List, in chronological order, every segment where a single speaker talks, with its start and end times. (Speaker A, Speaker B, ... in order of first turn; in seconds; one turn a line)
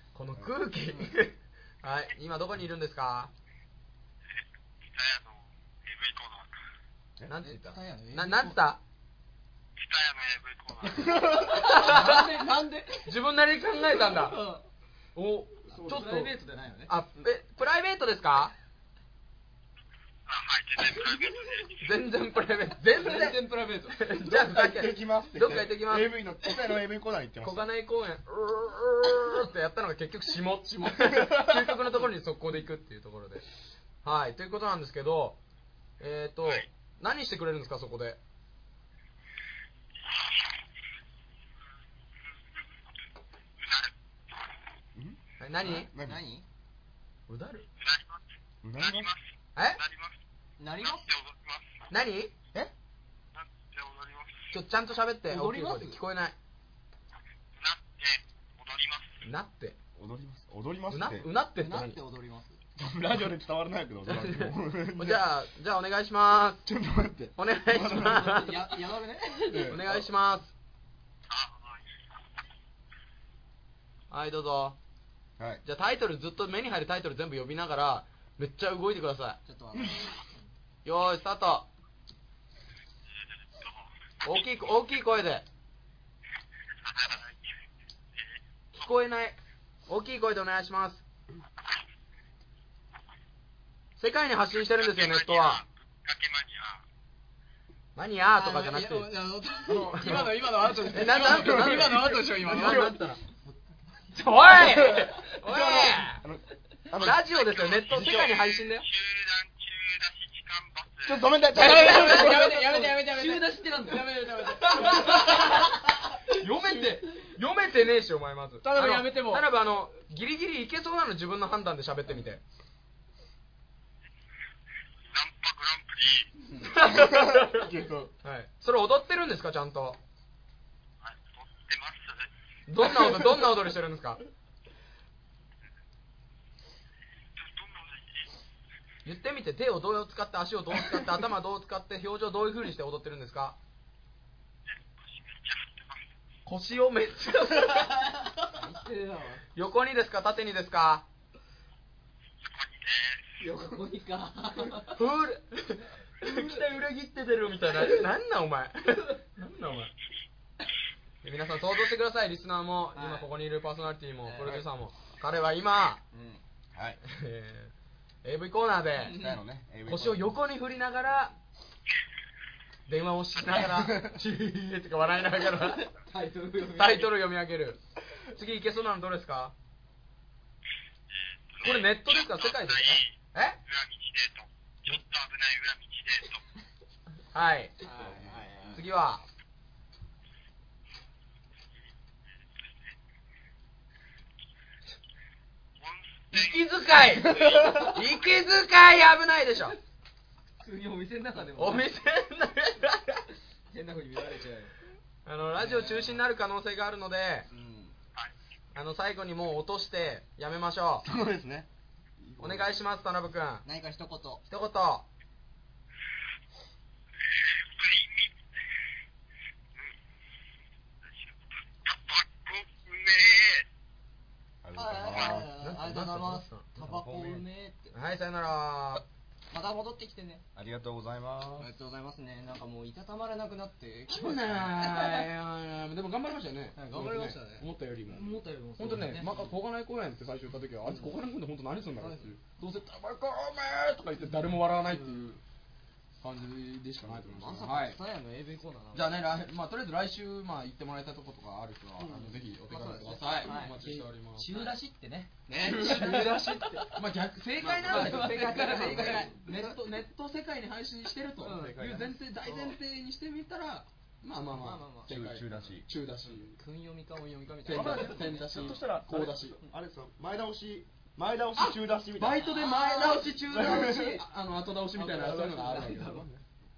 Speaker A: 0.1-3.3
Speaker B: 4.3-6.5
Speaker A: 7.3-8.8
Speaker C: 7.4-8.6
Speaker B: 9.8-11.3
Speaker C: 11.3-13.1
Speaker A: 11.4-12.5
Speaker A: 13.1-14.4
Speaker C: 13.8-14.7
Speaker A: 15.2-16.3
Speaker C: 15.7-16.9
Speaker D: 15.9-16.9
Speaker A: 16.9-18.5
Speaker B: 20.3-21.8
Speaker A: 21.8-26.3
Speaker C: 22.9-24.2
Speaker E: 24.2-27.7
Speaker A: 27.4-33.5
Speaker A: 34.0-35.4
Speaker A: 36.0-38.2
Speaker B: 40.1-40.3
Speaker B: 43.6-43.9
Speaker E: 45.0-46.2
Speaker A: 45.4-45.9
Speaker C: 45.6-46.5
Speaker A: 47.3-47.7
Speaker B: 47.8-48.2
Speaker E: 48.6-49.1
Speaker B: 48.8-50.1
Speaker A: 49.6-49.8
Speaker C: 50.6-51.1
Speaker B: 50.8-51.7
Speaker A: 51.9-52.3
Speaker B: 53.3-54.5
Speaker A: 54.5-56.4
Speaker C: 55.3-56.0
Speaker B: 57.5-59.2
Speaker A: 59.2-59.8
Speaker E: 60.0-61.3
Speaker A: 60.9-62.0
Speaker C: 61.6-62.6
Speaker E: 62.8-65.2
Speaker A: 65.0-66.6
Speaker E: 66.7-68.3
Speaker A: 67.4-68.8
Speaker C: 67.8-70.0
Speaker A: 69.5-70.5
Speaker E: 69.7-70.0
Speaker B: 71.3-71.8
Speaker A: 74.1-74.8
Speaker E: 75.4-75.6
Speaker A: 75.7-79.4
Speaker C: 79.5-80.2
Speaker A: 80.8-81.7
Speaker B: 83.1-83.8
Speaker A: 84.2-85.5
Speaker B: 86.8-87.6
Speaker B: 88.2-88.9
Speaker A: 88.7-91.0
Speaker A: 94.0-95.6
Speaker B: 94.8-96.8
Speaker A: 98.0-99.1
Speaker C: 98.3-103.0
Speaker A: 99.7-103.2
Speaker E: 101.2-102.0
Speaker A: 104.1-106.2
Speaker E: 104.8-107.2
Speaker A: 107.0-108.9
Speaker B: 107.3-111.3
Speaker E: 107.9-108.2
Speaker E: 111.0-112.5
Speaker C: 111.5-115.8
Speaker A: 111.8-112.5
Speaker D: 111.9-114.1
Speaker A: 114.6-122.4
Speaker C: 118.6-119.5
Speaker B: 125.0-126.3
Speaker A: 126.6-127.7
Speaker E: 126.8-128.1
Speaker A: 128.2-130.0
Speaker B: 131.0-132.3
Speaker A: 132.7-134.2
Speaker B: 137.4-138.3
Speaker A: 139.1-143.6
Speaker B: 144.7-146.1
Speaker A: 146.5-148.5
Speaker C: 148.6-149.4
Speaker A: 149.6-151.1
Speaker B: 152.4-153.3
Speaker C: 153.4-155.0
Speaker A: 154.9-159.9
Speaker A: 161.2-166.0
Speaker C: 162.9-163.3
Speaker C: 164.2-164.7
Speaker C: 166.1-166.4
Speaker E: 166.8-167.0
Speaker A: 167.0-167.7
Speaker A: 168.2-169.3
Speaker C: 169.0-169.4
Speaker E: 169.1-170.4
Speaker A: 169.9-171.3
Speaker A: 172.9-175.9
Speaker C: 173.6-174.1
Speaker C: 176.0-177.1
Speaker A: 176.7-179.5
Speaker B: 181.1-183.1
Speaker A: 181.6-183.6
Speaker B: 183.7-186.4
Speaker A: 187.3-187.8
Speaker C: 187.8-188.8
Speaker A: 188.7-189.2
Speaker B: 195.8-198.0
Speaker A: 196.3-199.8
Speaker C: 200.6-201.8
Speaker A: 201.6-203.2
Speaker C: 203.7-204.7
Speaker A: 205.3-207.5
Speaker C: 205.6-206.2
Speaker C: 207.5-208.0
Speaker A: 208.8-211.1
Speaker E: 211.0-211.7
Speaker E: 212.2-212.8
Speaker A: 212.4-213.7
Speaker C: 213.7-214.4
Speaker A: 214.5-215.1
Speaker B: 217.3-218.3
Speaker B: 221.8-223.7
Speaker E: 224.6-225.5
Speaker C: 224.8-227.9
Speaker A: 225.2-226.7
Speaker E: 226.8-227.4
Speaker A: 227.9-229.0
Speaker C: 229.5-230.4
Speaker E: 230.6-231.7
Speaker C: 231.6-235.3
Speaker A: 234.1-245.4
Speaker C: 236.8-237.7
Speaker D: 238.1-239.3
Speaker C: 240.9-241.1
Speaker C: 242.0-242.3
Speaker C: 244.8-245.3
Speaker A: 246.2-248.0
Speaker C: 247.1-249.3
Speaker A: 248.9-254.6
Speaker C: 252.0-254.7
Speaker D: 253.8-255.3
Speaker C: 255.5-256.9
Speaker A: 255.5-266.6
Speaker D: 255.9-256.5
Speaker C: 257.6-259.8
Speaker D: 257.9-259.3
Speaker C: 261.4-261.8
Speaker E: 261.4-262.7
Speaker C: 264.5-265.7
Speaker E: 265.1-265.9
Speaker C: 266.2-268.8
Speaker A: 267.6-269.6
Speaker E: 267.6-272.5
Speaker A: 272.2-276.3
Speaker C: 272.4-274.2
Speaker E: 273.4-274.2
Speaker C: 274.9-276.2
Speaker E: 275.1-276.4